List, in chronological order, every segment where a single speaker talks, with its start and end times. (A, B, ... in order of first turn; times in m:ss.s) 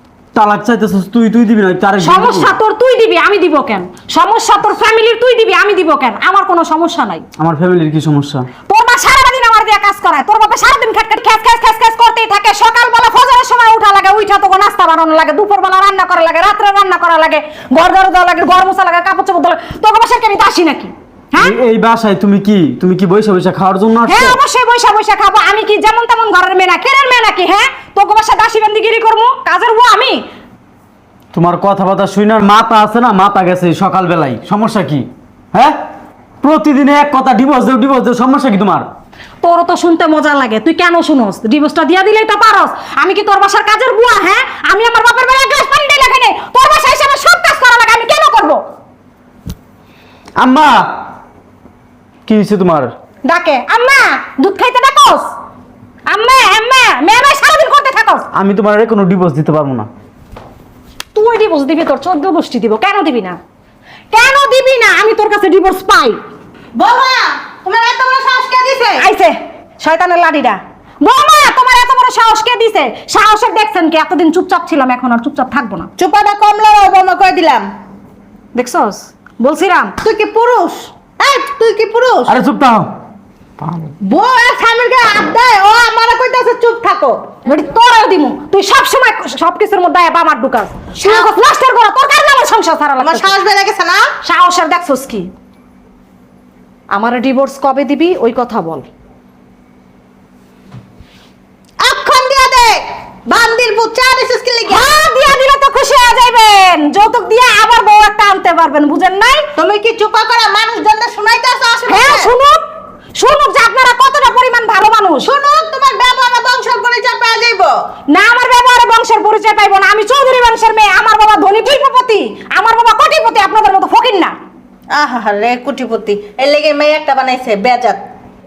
0:00.3-0:02.5 A
0:02.0-0:07.2 B
0:07.4-0:08.5 A
0:08.7-0:21.6 B
0:21.4-0:24.4 A
0:24.1-0:30.2 B
0:31.3-0:35.8 A
0:36.4-0:38.9 A
0:39.4-0:48.6 B
0:50.4-0:51.0 A
0:52.2-0:52.9 A
0:53.2-0:55.3 B
0:56.1-0:58.3 B
0:58.3-0:59.9 A
1:01.1-1:03.4 B
1:04.1-1:06.2 B
1:06.8-1:09.0 C
1:08.9-1:15.9 B
1:16.0-1:17.7 C
1:18.5-1:20.0 B
1:20.0-1:22.3 C
1:22.2-1:22.9 A
1:23.6-1:23.9 A
1:24.0-1:27.2 C
1:27.4-1:33.3 B
1:33.1-1:34.0 C
1:34.2-1:35.3 B
1:36.9-1:38.8 B
1:41.8-1:44.8 C
1:44.7-1:49.5 B
1:49.6-1:52.2 C
1:51.9-1:52.6 B
1:53.1-1:55.3 B
1:55.3-1:57.7 C
1:58.1-2:04.3 B
2:04.9-2:08.0 C